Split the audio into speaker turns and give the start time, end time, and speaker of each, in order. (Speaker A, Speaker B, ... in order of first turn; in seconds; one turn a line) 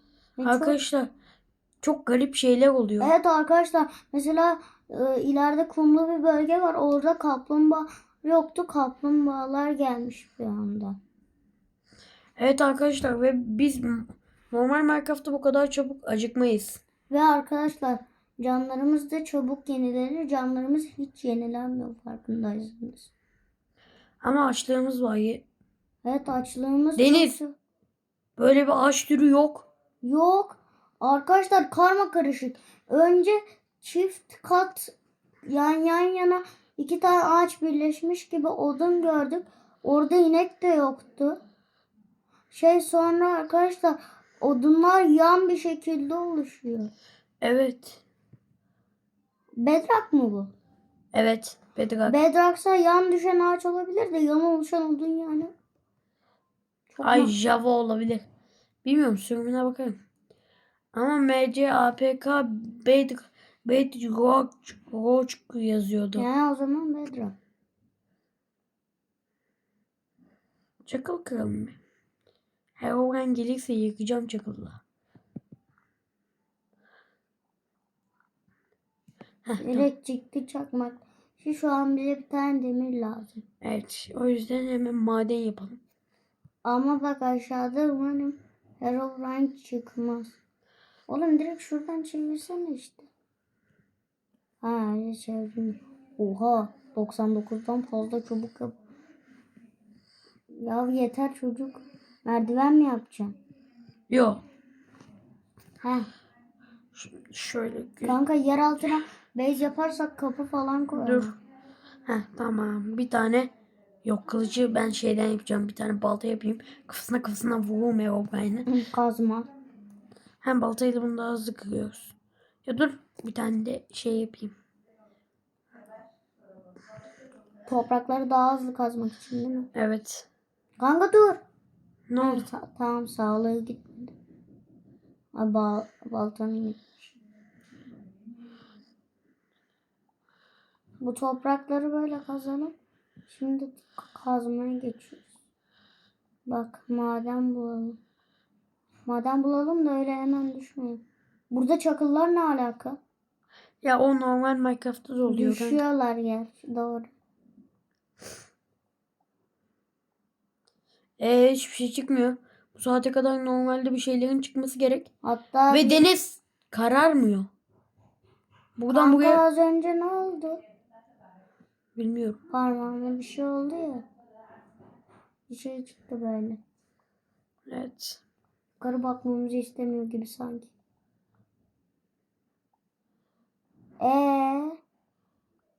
Speaker A: 0.4-0.8
Speaker B: 0.4-1.1
Speaker B: 1.8-3.1
Speaker A: 3.0-11.0
Speaker B: 12.4-16.8
Speaker A: 17.1-23.1
Speaker B: 24.2-25.4
Speaker A: 26.0-27.6
Speaker B: 26.9-27.4
Speaker B: 28.4-29.7
Speaker A: 30.0-34.9
Speaker A: 35.5-41.4
Speaker A: 42.5-46.9
Speaker B: 47.4-48.0
Speaker A: 49.6-50.5
Speaker B: 51.1-52.1
Speaker A: 52.0-55.5
Speaker A: 56.9-57.3
Speaker B: 57.0-58.2
Speaker B: 58.8-60.0
Speaker B: 60.9-66.2
Speaker A: 66.2-67.3
Speaker B: 70.8-71.8
Speaker B: 72.8-74.8
Speaker B: 79.4-79.8
Speaker A: 79.6-83.4
Speaker B: 83.6-85.8
Speaker A: 86.6-90.3
Speaker A: 91.1-93.1
Speaker A: 94.6-98.8
Speaker A: 100.6-103.3
Speaker B: 104.1-104.4
Speaker A: 105.8-106.1
Speaker B: 106.9-108.2
Speaker A: 108.0-111.3
Speaker B: 111.0-111.3
Speaker B: 112.1-113.5
Speaker B: 114.0-118.7
Speaker A: 118.7-119.5
Speaker B: 120.4-124.5
Speaker A: 127.7-129.7
Speaker B: 129.7-130.3
Speaker A: 130.8-131.4
Speaker B: 132.1-132.5
Speaker A: 132.2-134.1
Speaker A: 135.3-137.2
Speaker A: 141.0-142.7
Speaker A: 143.3-145.3
Speaker A: 146.5-148.0
Speaker A: 149.1-153.0
Speaker B: 153.8-155.8
Speaker A: 155.3-157.1
Speaker B: 161.2-165.1
Speaker A: 165.2-166.0
Speaker B: 165.7-167.5
Speaker B: 168.8-169.4
Speaker A: 168.9-170.6
Speaker B: 171.9-172.4
Speaker A: 172.5-174.0
Speaker A: 175.5-176.6
Speaker B: 177.7-178.2
Speaker A: 178.8-180.7
Speaker A: 184.0-184.8